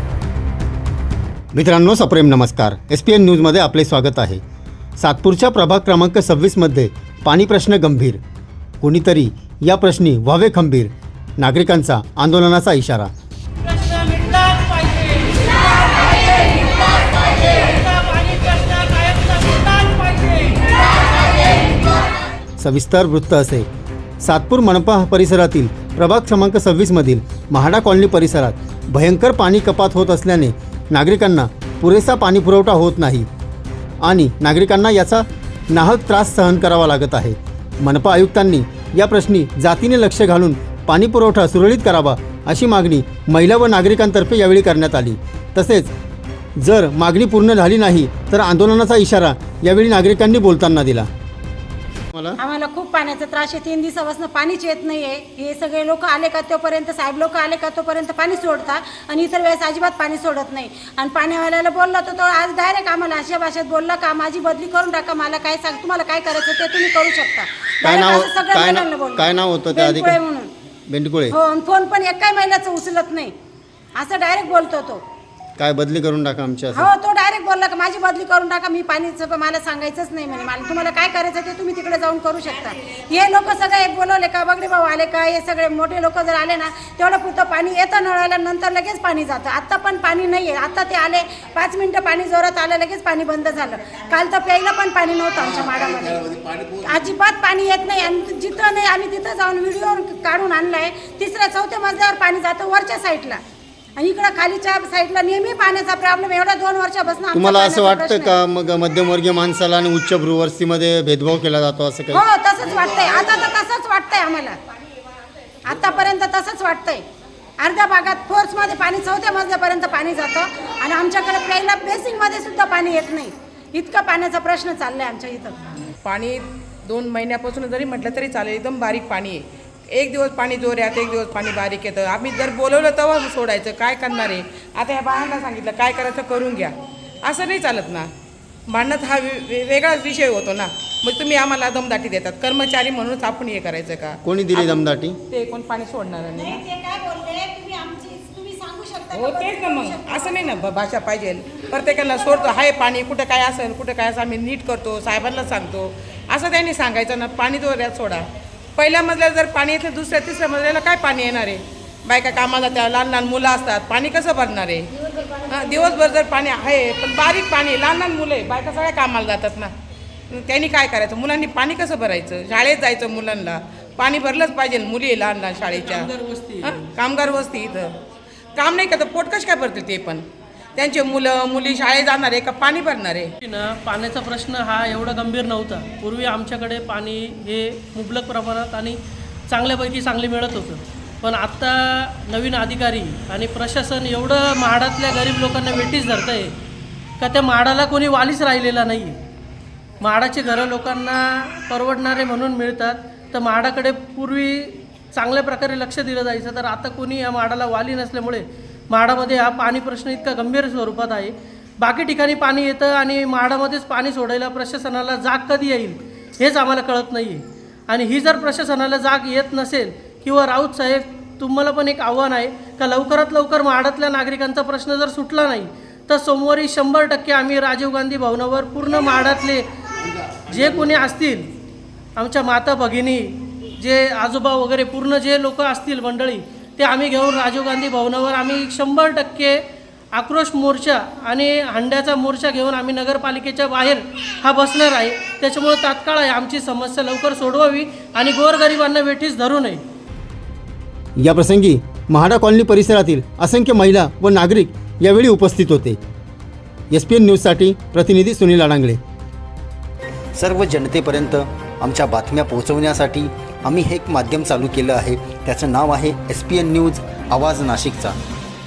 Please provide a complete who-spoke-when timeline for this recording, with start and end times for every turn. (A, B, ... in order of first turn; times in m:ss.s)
0:01.5-0:04.4 A
0:05.0-0:08.2 A
0:08.8-0:13.1 A
0:13.6-0:21.7 B
0:22.6-0:23.6 A
0:24.2-0:33.2 A
0:34.0-0:45.9 A
0:46.6-0:51.1 A
0:52.4-1:10.5 C
1:07.8-1:10.2 A
1:10.9-1:11.4 A
1:11.3-1:13.3 C
1:14.0-1:15.0 C
1:15.6-1:16.9 A
1:16.7-1:43.4 C
1:44.0-1:48.3 C
1:47.3-1:52.2 A
1:52.1-1:54.6 C
1:55.6-1:57.0 C
1:57.6-2:05.6 C
2:06.0-2:18.1 D
2:18.7-2:26.6 D
2:24.2-2:25.2 A
2:26.3-2:30.6 C
2:29.1-2:38.2 D
2:32.1-2:32.5 C
2:38.8-2:49.7 D
2:50.3-2:56.1 D
2:55.7-2:56.8 B
2:56.6-2:57.9 D
2:58.6-3:00.2 D
3:00.8-3:03.3 D
3:03.4-3:09.0 B
3:09.5-3:16.5 B
3:17.2-3:19.2 B
3:20.0-3:49.6 B
3:50.5-3:51.5 B
3:52.2-3:59.6 B
4:00.1-4:09.8 B
4:11.2-4:16.0 A
4:16.9-4:19.0 A
4:20.3-4:28.2 E